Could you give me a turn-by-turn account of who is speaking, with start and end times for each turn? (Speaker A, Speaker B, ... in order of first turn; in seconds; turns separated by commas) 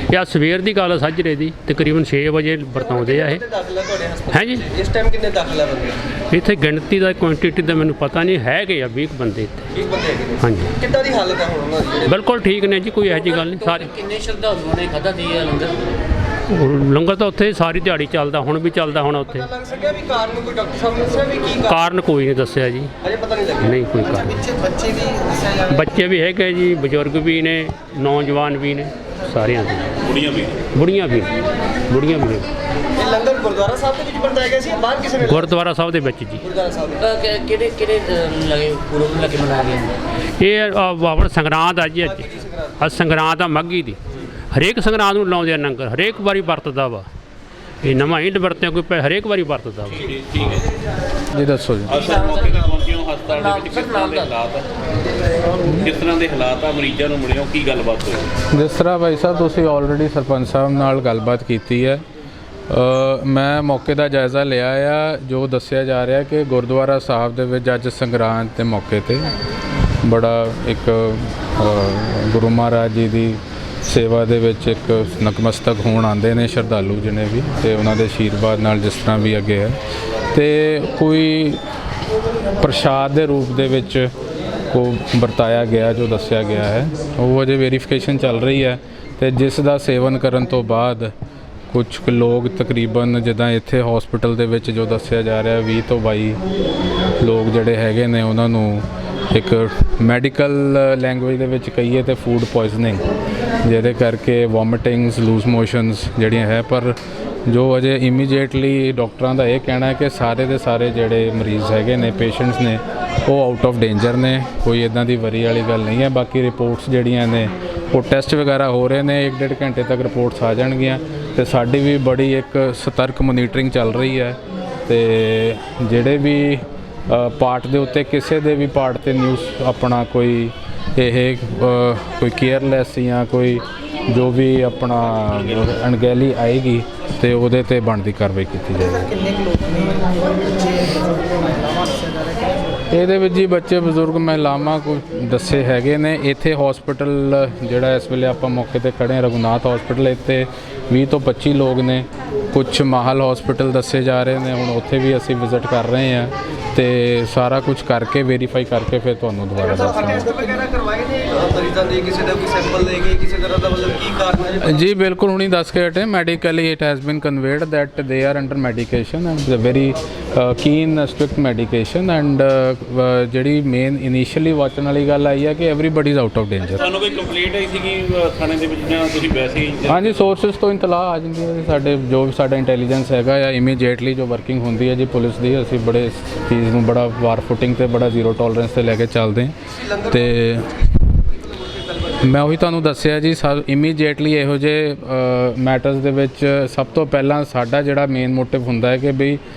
Speaker A: 0.1-3.5, Speaker B: 3.0-6.0, Speaker A: 4.3-4.7, Speaker A: 6.3-9.7, Speaker B: 9.8-12.0, Speaker A: 10.4-10.8, Speaker A: 12.1-14.0, Speaker C: 13.6-15.8, Speaker A: 16.5-19.5, Speaker B: 19.6-21.6, Speaker A: 21.6-22.9, Speaker B: 23.1-23.7, Speaker A: 23.6-24.5, Speaker D: 24.1-25.7, Speaker A: 25.7-29.9, Speaker E: 30.1-30.5, Speaker A: 30.7-32.5, Speaker B: 33.0-35.4, Speaker A: 35.2-36.4, Speaker B: 36.5-37.0, Speaker C: 37.0-40.0, Speaker A: 40.4-44.0, Speaker A: 44.5-47.1, Speaker A: 47.8-50.1, Speaker E: 50.0-50.6, Speaker F: 51.3-52.0, Speaker E: 51.9-54.7, Speaker C: 52.0-52.7, Speaker C: 53.3-54.3, Speaker E: 55.7-58.3, Speaker F: 58.5-62.0, Speaker F: 62.7-69.3, Speaker F: 70.0-79.8, Speaker F: 80.3-81.6, Speaker F: 82.6-84.1, Speaker F: 84.7-91.1, Speaker F: 91.7-96.4, Speaker F: 97.2-103.0, Speaker F: 103.6-139.1, Speaker E: 135.0-135.7, Speaker D: 139.2-142.4, Speaker F: 142.9-160.5, Speaker B: 159.6-164.6, Speaker F: 164.6-176.8, Speaker E: 176.8-180.2, Speaker F: 179.9-190.9, Speaker F: 192.2-199.4